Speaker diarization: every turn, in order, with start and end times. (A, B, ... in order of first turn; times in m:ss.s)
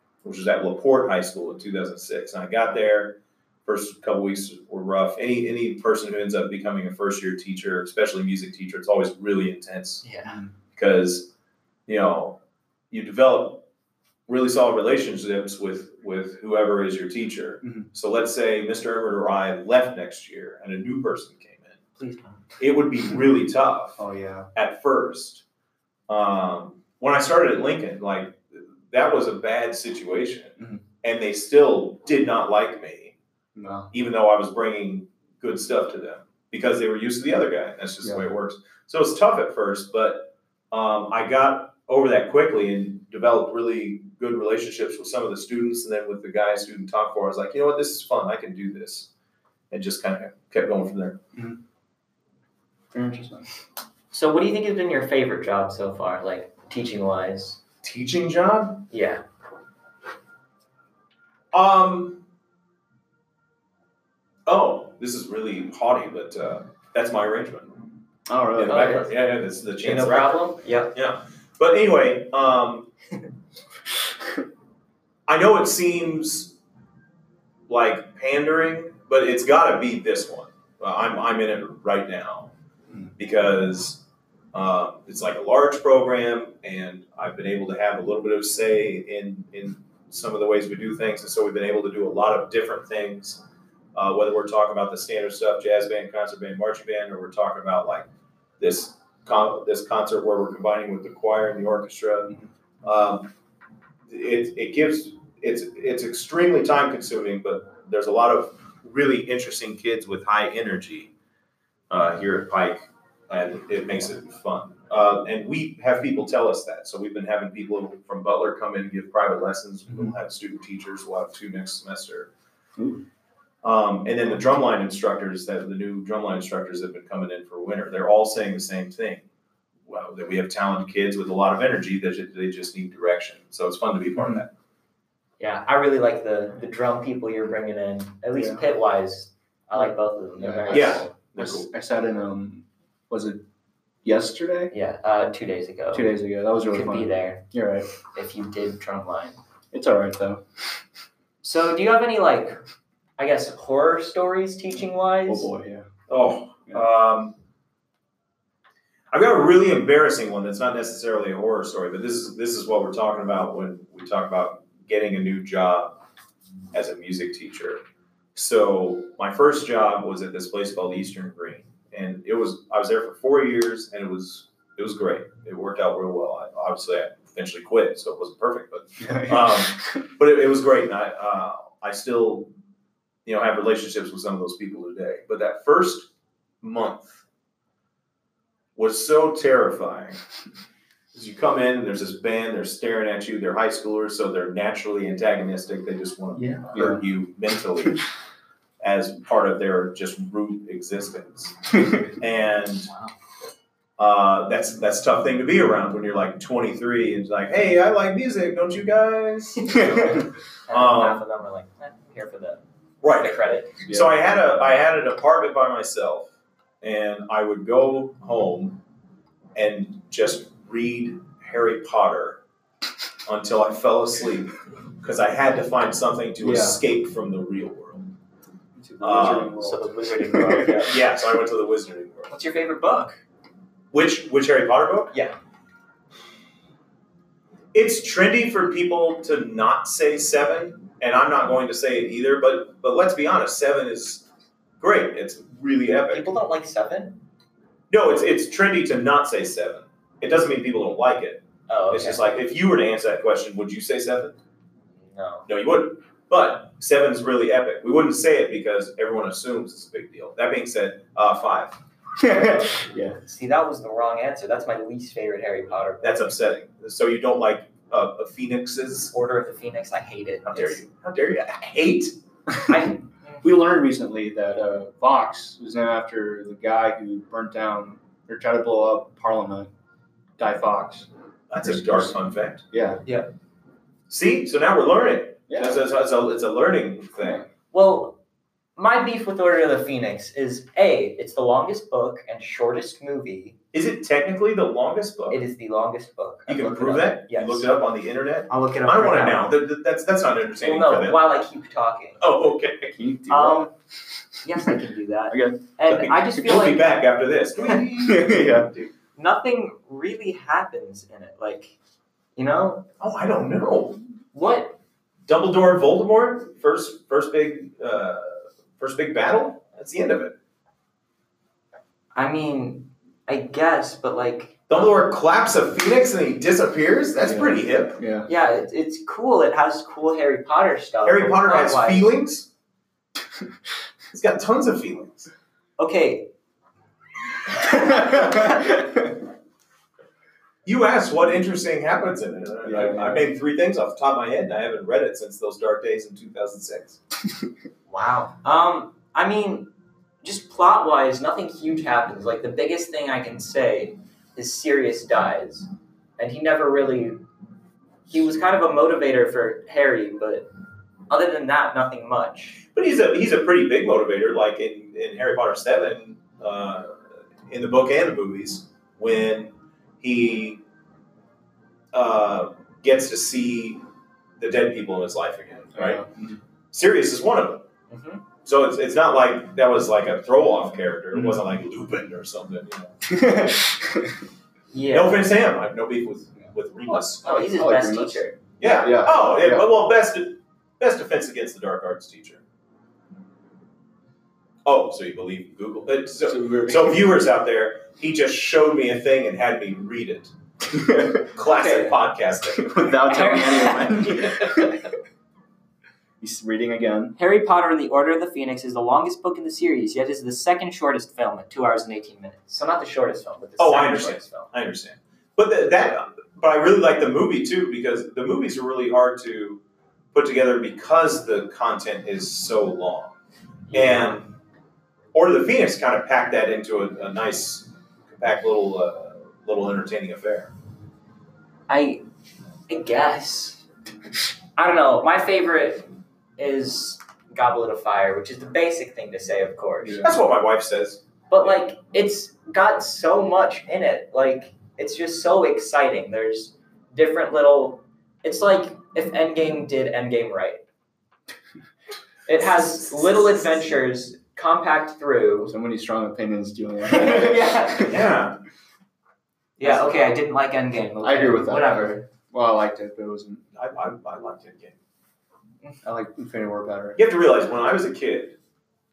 0:00.2-0:10.0 A
0:10.0-0:10.4 B
0:10.2-0:10.5 C
0:10.8-0:11.3 A
0:11.9-0:12.4 A
0:12.9-0:13.6 A
0:14.3-0:21.8 A
0:17.6-0:17.9 C
0:22.0-0:22.4 B
0:22.6-0:24.0 A
0:24.0-0:24.5 C
0:24.5-0:25.4 A
0:26.1-0:33.2 A
0:33.5-0:33.9 C
0:33.9-0:49.1 A
0:49.7-0:51.2 A
0:52.9-0:53.5 C
0:54.1-0:57.6 B
0:57.8-0:58.8 A
0:58.9-0:59.2 B
1:01.5-1:02.2 A
1:04.4-1:07.8 A
1:08.3-1:09.0 C
1:08.6-1:12.9 A
1:08.7-1:09.1 B
1:09.8-1:10.9 B
1:15.3-1:16.6 A
1:17.7-1:22.5 A
1:23.2-1:33.4 A
1:33.9-1:38.1 A
1:38.6-1:43.3 A
1:44.1-1:51.1 A
1:51.9-2:02.3 A
2:02.8-2:03.0 C
2:03.6-2:09.2 A
2:09.9-2:14.5 A
2:14.2-2:14.4 C
2:15.4-2:21.1 B
2:18.3-2:18.6 C
2:19.8-2:23.4 C
2:20.7-2:21.7 A
2:24.0-2:24.7 C
2:24.7-2:26.1 B
2:25.9-2:27.9 C
2:26.7-2:27.5 B
2:28.1-2:29.4 B
2:29.7-2:30.4 C
2:31.4-2:32.6 B
2:33.2-2:35.5 B
2:35.2-2:35.9 C
2:36.1-2:37.4 A
2:39.1-2:45.9 A
2:46.7-2:47.8 A
2:48.3-3:02.5 A
2:59.0-3:00.0 C
3:03.2-3:06.1 A
3:06.6-3:07.2 A
3:08.8-3:10.2 A
3:11.1-3:18.0 A
3:16.4-3:17.0 C
3:18.8-3:22.9 A
3:21.7-3:22.0 C
3:24.0-3:31.2 A
3:29.6-3:33.8 B
3:29.9-3:30.2 C
3:33.0-3:36.3 A
3:33.9-3:34.2 C
3:36.8-3:38.8 A
3:39.5-3:42.4 A
3:43.3-3:48.1 A
3:46.4-3:46.8 C
3:48.8-3:50.9 C
3:49.0-3:49.6 A
3:49.6-3:51.0 B
3:50.7-3:52.3 A
3:52.3-3:53.2 B
3:53.9-3:55.1 A
3:57.7-4:04.2 A
4:04.8-4:06.3 A
4:06.1-4:07.2 B
4:07.9-4:14.4 A
4:11.7-4:12.2 B
4:15.0-4:15.5 B
4:15.5-4:21.8 A
4:22.2-4:23.2 C
4:23.2-4:26.3 B
4:26.0-4:29.1 A
4:29.1-4:30.8 B
4:30.4-4:32.1 A
4:32.7-4:33.4 B
4:33.4-4:39.7 C
4:40.4-4:41.1 C
4:41.5-4:42.6 A
4:41.6-4:42.1 C
4:42.7-4:43.0 C
4:44.1-4:47.4 A
4:45.5-4:45.8 C
4:47.7-4:48.2 B
4:48.8-4:53.6 B
4:53.7-4:55.4 A
4:55.3-4:57.7 B
4:56.5-5:01.3 A
4:58.5-4:59.5 B
5:00.6-5:02.2 B
5:02.2-5:03.0 A
5:02.9-5:04.7 C
5:03.3-5:03.7 B
5:04.4-5:07.0 B
5:05.3-5:05.6 C
5:05.9-5:08.9 A
5:08.0-5:08.7 C
5:09.2-5:11.8 B
5:12.4-5:12.9 B
5:13.0-5:14.0 A
5:14.3-5:14.8 B
5:15.3-5:20.3 A
5:22.1-5:24.7 B
5:24.7-5:28.0 A
5:27.2-5:28.3 C
5:28.3-5:32.1 B
5:31.0-5:32.5 A
5:34.1-5:35.3 A
5:35.8-5:36.3 B
5:37.5-5:38.8 B
5:38.0-5:38.8 C
5:40.6-5:47.0 A
5:42.6-5:43.3 C
5:47.9-5:49.7 B
5:50.2-5:57.2 B
5:58.0-6:00.5 B
6:01.1-6:02.6 B
6:02.7-6:10.6 A
6:11.9-6:13.8 A
6:14.4-6:16.0 A
6:15.7-6:16.4 C
6:16.7-6:17.6 A
6:17.9-6:18.2 B
6:18.4-6:23.0 A
6:21.1-6:21.4 C
6:23.0-6:24.2 C
6:24.7-6:25.2 B
6:24.9-6:27.5 A
6:27.2-6:28.4 B
6:27.2-6:29.7 C
6:28.6-6:32.4 A
6:34.6-6:40.3 A
6:36.2-6:37.1 C
6:40.7-6:41.3 C
6:41.3-6:42.8 A
6:41.4-6:42.1 B
6:42.5-6:44.8 C
6:42.8-6:44.9 B
6:46.2-6:47.1 C
6:47.2-6:54.5 B
6:53.6-6:59.6 A
7:00.1-7:03.2 A
7:03.7-7:04.2 B
7:03.7-7:04.3 A
7:05.1-7:10.5 A
7:11.7-7:12.0 B
7:12.7-7:13.6 B
7:14.6-7:20.1 B
7:19.8-7:20.2 C
7:20.0-7:21.5 A
7:21.3-7:30.6 B
7:32.2-7:35.5 B
7:32.6-7:33.6 A
7:35.5-7:38.0 C
7:36.8-7:38.0 B
7:37.8-7:38.4 A
7:39.6-7:42.0 B
7:41.0-7:43.4 C
7:43.5-7:44.8 A
7:45.8-7:47.0 C
7:47.0-7:48.4 A